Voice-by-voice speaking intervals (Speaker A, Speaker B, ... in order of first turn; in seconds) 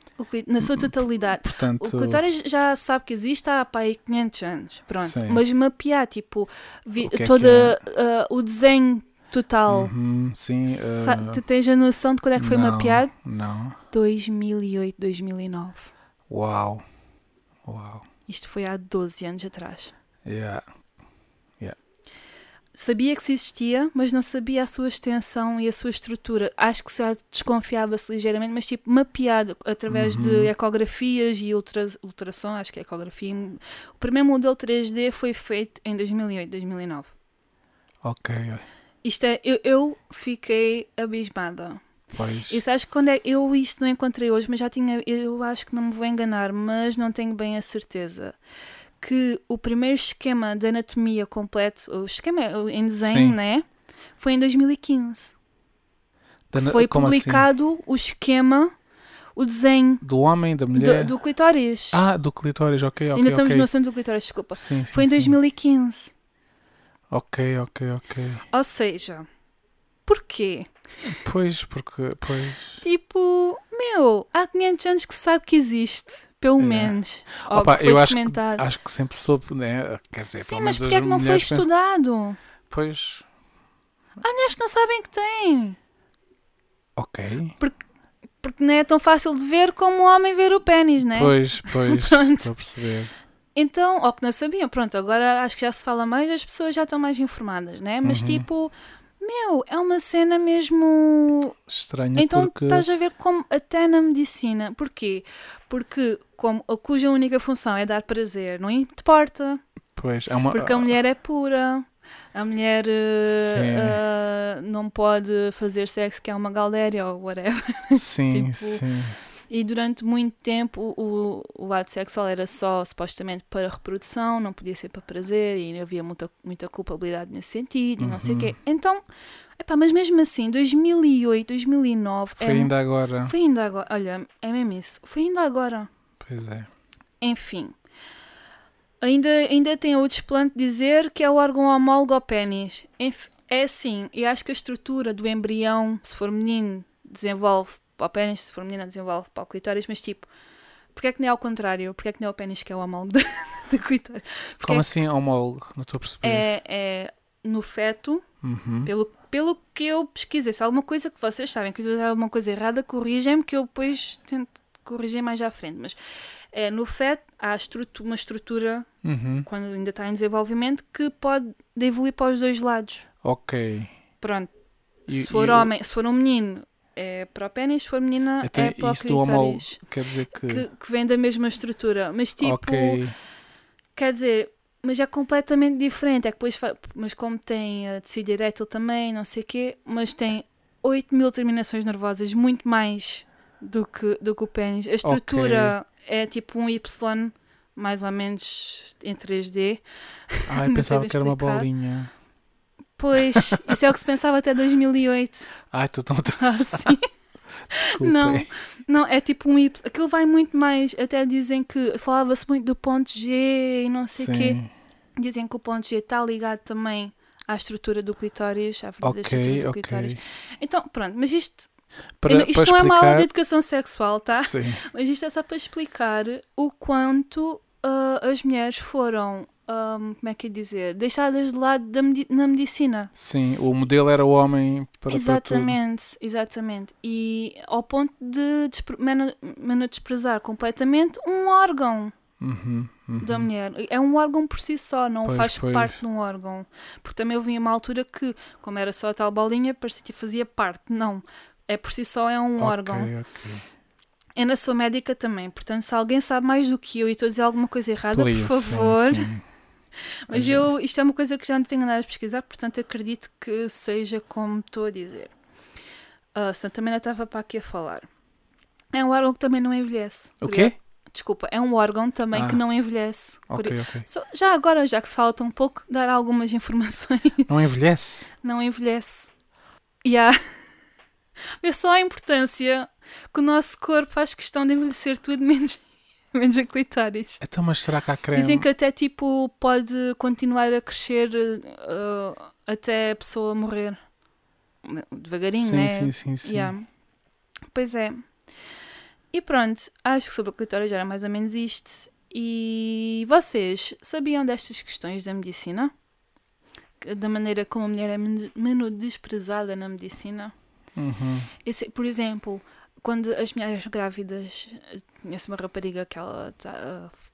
Speaker A: 0.2-9.9, 10.7-13.1, 13.9-15.9, 18.3-19.9, 22.7-37.1, 39.0-41.8, 42.5-48.3, 49.0-53.6, 54.2-55.3, 56.6-58.7, 59.4-60.0, 60.7-62.0, 63.1-66.1, 68.5-69.3, 70.1-70.7, 72.8-78.6, 80.4-82.4, 84.2-85.8, 88.4-92.5, 93.5-101.5, 102.1-109.6, 110.5-118.8, 119.5-129.0, 129.6-135.9, 137.2-137.7, 139.0-150.3, 150.9-154.9, 156.2-158.2, 158.8-166.0, 166.5-168.9, 169.4-173.1, 174.2-174.5, 175.1-179.8, 180.4-183.0, 183.9-201.7, 203.0-205.5, 206.4-207.1, 207.7-214.6, 215.2-221.7, 222.3-233.1, 235.1-242.1, 243.2-253.1, 254.3-259.3, 260.3-265.3, 266.3-268.1, 268.9-277.7, 278.4-279.3, 280.0-280.4, 281.6-287.4, 288.3-294.0, 294.8-296.9, 297.7-298.2, 299.3-305.9, 307.0-310.5, 311.6-317.1
Speaker B: 0.6-2.2, 5.0-5.4, 7.0-7.8, 9.7-11.4, 12.3-13.8, 16.3-16.8, 17.6-18.0, 20.2-20.6, 29.9-30.5, 38.0-38.6, 42.1-42.6, 53.0-53.4, 56.5-57.5, 60.0-61.1, 61.9-63.7, 64.5-65.3, 67.1-68.4, 71.0-72.8, 76.6-81.7, 82.7-83.2, 87.0-87.5, 91.1-93.1, 98.0-98.4, 101.7-102.9, 110.0-110.9, 113.3-114.0, 117.9-119.2, 128.0-128.6, 132.4-133.3, 136.2-136.7, 154.6-156.4, 158.4-158.9, 169.0-169.5, 173.2-173.9, 175.1-175.7, 178.4-180.7, 182.4-183.1, 195.0-195.7, 200.5-202.1, 203.3-203.8, 205.7-206.9, 207.8-208.5, 214.1-214.7, 219.0-220.2, 222.2-223.3, 224.3-224.8, 233.2-235.8, 242.4-243.5, 245.2-246.0, 252.6-253.6, 258.1-259.4, 260.3-260.7, 270.4-270.7, 272.3-272.6, 273.5-274.1, 277.5-278.3, 287.4-288.7, 295.6-296.7, 310.9-311.5